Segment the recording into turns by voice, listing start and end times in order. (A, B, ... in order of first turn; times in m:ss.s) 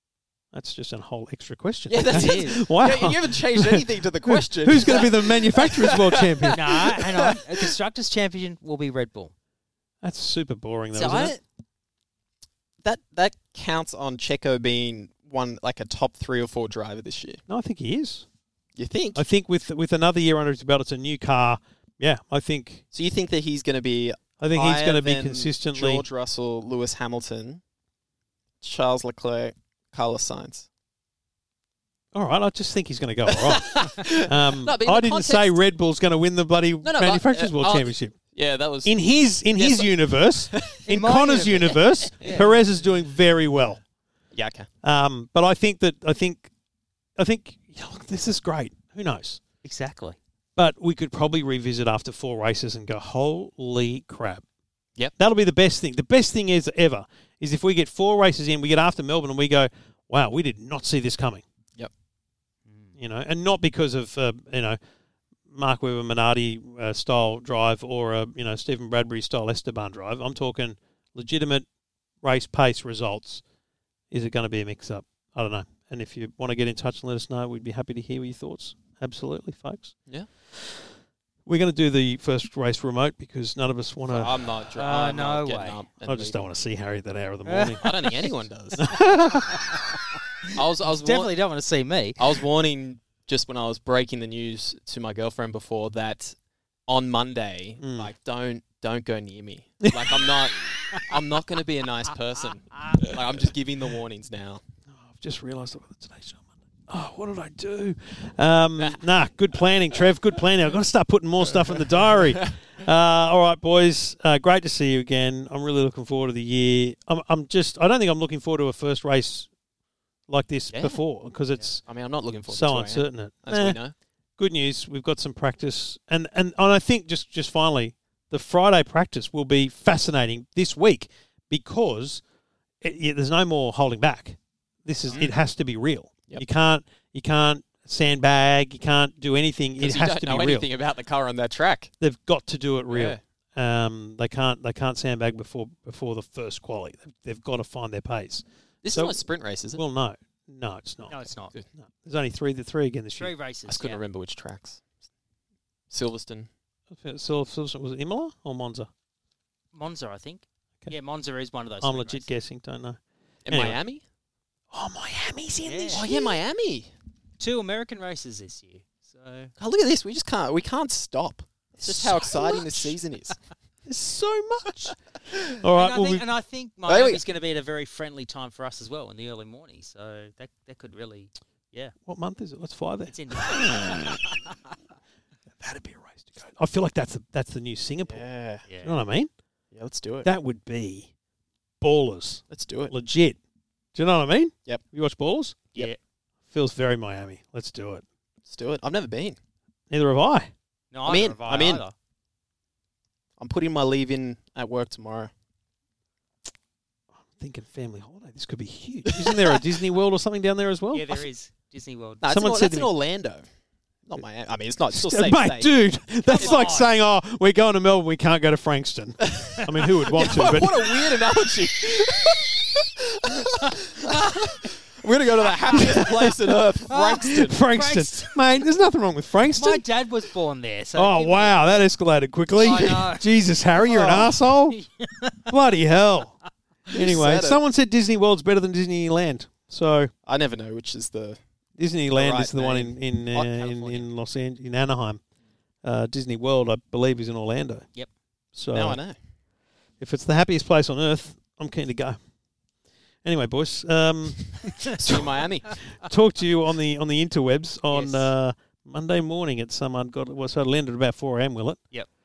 0:00.5-0:06.9 A
0:01.9-0:07.6 B
0:02.0-0:02.6 C
0:06.5-0:09.3 C
0:10.0-0:11.3 A
0:10.9-0:11.4 B
0:12.8-0:17.4 B
0:17.5-0:18.3 A
0:18.8-0:19.2 B
0:19.1-0:22.8 A
0:22.9-0:27.6 B
0:24.4-0:26.0 A
0:28.6-0:30.7 B
0:32.1-0:38.1 A
0:33.3-0:35.5 B
0:36.8-0:38.9 B
0:38.8-0:43.8 A
0:39.6-0:40.8 B
0:40.8-0:42.6 C
0:44.3-0:44.7 B
0:44.8-0:46.5 A
0:47.2-0:49.4 A
0:49.6-0:50.2 C
0:50.6-0:54.4 A
0:55.2-1:01.4 A
1:02.7-1:02.9 C
1:03.0-1:04.8 A
1:05.5-1:11.7 A
1:12.2-1:13.4 A
1:14.1-1:20.0 A
1:20.5-1:20.9 A
1:21.4-1:24.3 A
1:24.1-1:26.5 B
1:24.8-1:25.8 C
1:26.0-1:27.9 A
1:27.4-1:28.0 C
1:27.8-1:29.0 B
1:28.8-1:29.6 A
1:28.9-1:32.2 C
1:30.5-1:31.3 B
1:32.2-1:36.3 B
1:36.9-1:44.6 B
1:37.8-1:38.1 A
1:39.8-1:40.3 A
1:42.9-1:43.2 A
1:44.9-1:59.5 A
2:00.3-2:01.8 A
2:00.7-2:01.0 B
2:01.9-2:03.9 B
2:02.5-2:03.8 A
2:04.4-2:12.2 A
2:12.8-2:20.7 A
2:19.8-2:21.9 B
2:22.0-2:29.2 A
2:22.9-2:23.2 B
2:28.8-2:29.8 B
2:29.7-2:33.3 A
2:31.1-2:31.5 C
2:33.2-2:34.0 C
2:33.7-2:34.8 B
2:35.9-2:36.5 B
2:36.9-2:38.9 A
2:39.7-2:42.3 C
2:41.8-2:43.8 A
2:43.4-2:44.0 B
2:44.7-2:46.2 A
2:45.7-2:46.1 C
2:45.9-2:46.9 B
2:47.4-2:49.5 C
2:49.6-2:53.3 B
2:51.8-2:53.0 A
2:53.9-2:55.0 A
2:55.6-2:56.2 A
2:55.7-3:01.9 C
2:56.9-2:57.2 B
3:02.0-3:03.7 A
3:03.1-3:04.5 C
3:05.6-3:08.3 A
3:08.1-3:08.7 B
3:08.7-3:09.0 C
3:08.8-3:09.3 A
3:09.7-3:10.3 B
3:10.2-3:11.1 A
3:11.8-3:13.4 A
3:12.5-3:12.9 B
3:13.9-3:15.6 A
3:16.5-3:18.0 A
3:18.4-3:19.4 B
3:19.9-3:20.5 A
3:20.9-3:21.9 C
3:21.0-3:21.8 B
3:23.4-3:25.3 B
3:27.4-3:31.2 A
3:29.1-3:29.6 B
3:30.9-3:32.2 C
3:32.2-3:33.4 B
3:32.3-3:32.9 A
3:34.0-3:35.7 B
3:34.9-3:40.9 A
3:36.2-3:36.9 C
3:36.4-3:36.7 B
3:40.1-3:47.6 B
3:45.7-3:46.4 A
3:46.9-3:48.4 C
3:47.3-3:49.8 A
3:49.6-3:51.8 C
3:51.0-3:54.8 A
3:52.6-3:53.2 C
3:53.9-3:54.4 B
3:54.7-3:55.5 C
3:55.5-3:56.4 A
3:56.9-3:57.6 B
3:56.9-4:00.1 A
4:00.3-4:01.4 B
4:01.8-4:05.2 A
4:02.1-4:04.0 B
4:05.8-4:07.9 A
4:08.5-4:09.0 A
4:08.7-4:09.2 B
4:10.0-4:12.2 A
4:13.2-4:15.3 A
4:14.8-4:15.8 B
4:16.0-4:21.8 A
4:17.9-4:18.3 C